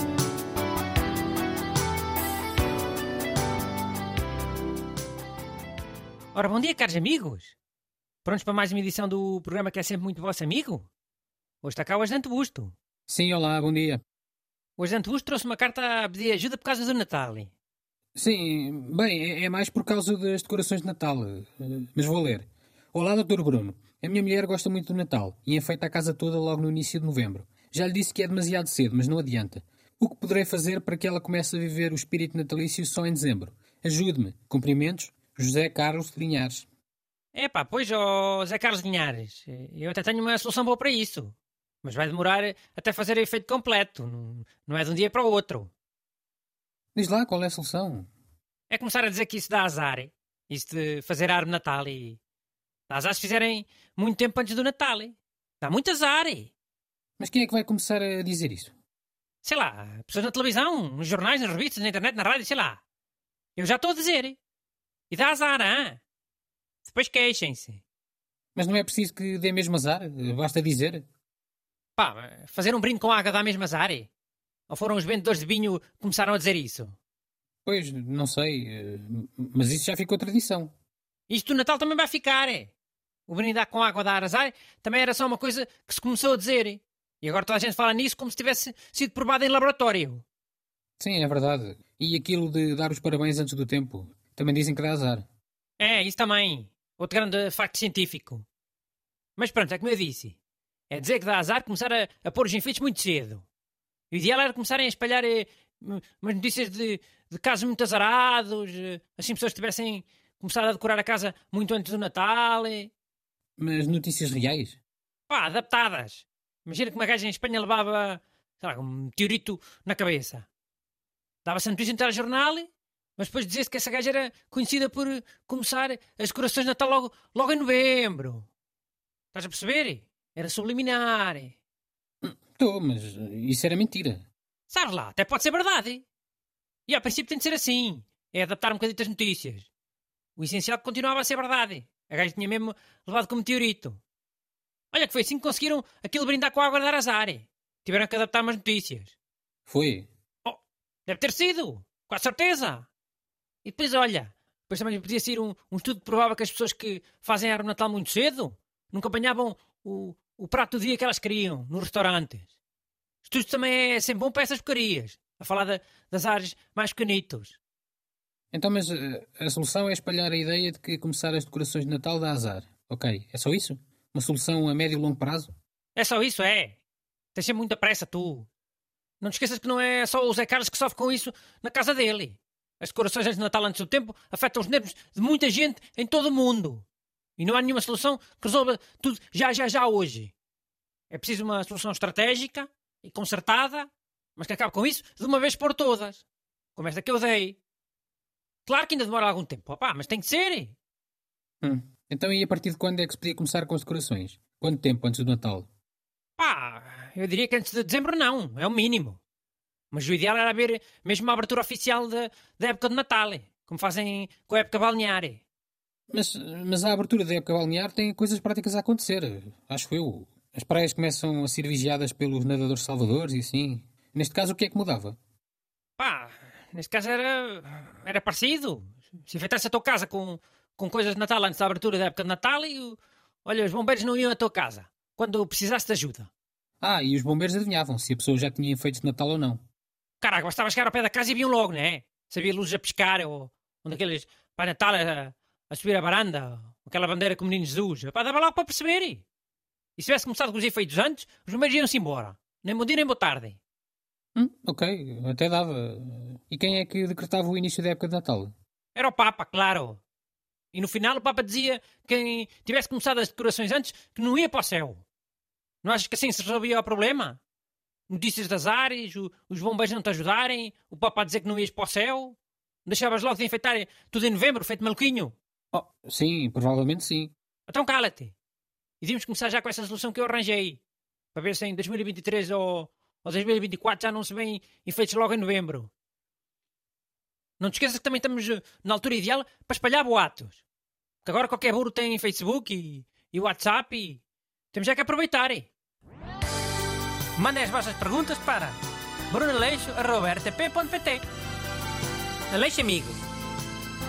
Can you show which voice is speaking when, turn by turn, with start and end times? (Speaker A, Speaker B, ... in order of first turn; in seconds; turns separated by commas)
Speaker A: 6.3-7.6, Speaker A: 8.2-10.9, Speaker A: 11.6-12.8, Speaker B: 13.1-14.0, Speaker A: 14.8-17.5, Speaker B: 18.1-36.7, Speaker A: 37.3-45.7, Speaker B: 47.0-48.1, Speaker A: 48.7-52.2, Speaker A: 52.9-56.5, Speaker B: 57.2-58.7, Speaker A: 59.4-62.8, Speaker A: 63.6-64.4, Speaker A: 65.1-66.0, Speaker A: 66.8-67.8, Speaker B: 68.6-71.0, Speaker A: 72.0-74.1, Speaker A: 74.7-77.0, Speaker B: 77.7-80.7, Speaker A: 81.3-82.7, Speaker A: 83.3-90.2, Speaker B: 91.0-95.3, Speaker A: 95.8-98.5, Speaker A: 99.4-100.4, Speaker A: 100.9-103.5, Speaker A: 104.1-112.9, Speaker B: 113.6-114.8, Speaker A: 115.3-120.5, Speaker A: 121.5-128.5, Speaker A: 129.3-131.6, Speaker B: 132.2-134.3, Speaker A: 134.7-136.1, Speaker A: 136.9-139.7, Speaker A: 140.4-144.0, Speaker A: 144.9-149.2, Speaker B: 149.7-150.1, Speaker A: 150.4-152.9, Speaker A: 153.6-162.5, Speaker A: 163.2-167.6, Speaker B: 168.5-175.5, Speaker A: 176.0-176.8, Speaker A: 177.3-178.5, Speaker A: 179.2-186.9, Speaker A: 187.4-190.3, Speaker A: 191.1-197.6, Speaker A: 198.7-200.8, Speaker B: 201.6-205.7, Speaker A: 206.4-209.2, Speaker A: 209.9-215.4, Speaker B: 216.1-225.2, Speaker A: 226.0-236.3, Speaker B: 236.8-239.6, Speaker A: 240.2-249.2, Speaker A: 250.0-253.6, Speaker B: 254.3-258.5, Speaker A: 258.9-260.0, Speaker A: 260.7-265.1, Speaker A: 265.8-267.4, Speaker A: 268.1-275.4, Speaker B: 275.7-277.3, Speaker A: 277.7-278.4, Speaker A: 279.0-280.8, Speaker A: 281.3-285.9, Speaker A: 287.6-290.6, Speaker A: 291.2-294.2, Speaker A: 294.7-295.7, Speaker A: 297.4-298.8, Speaker A: 299.3-301.2, Speaker A: 302.5-303.2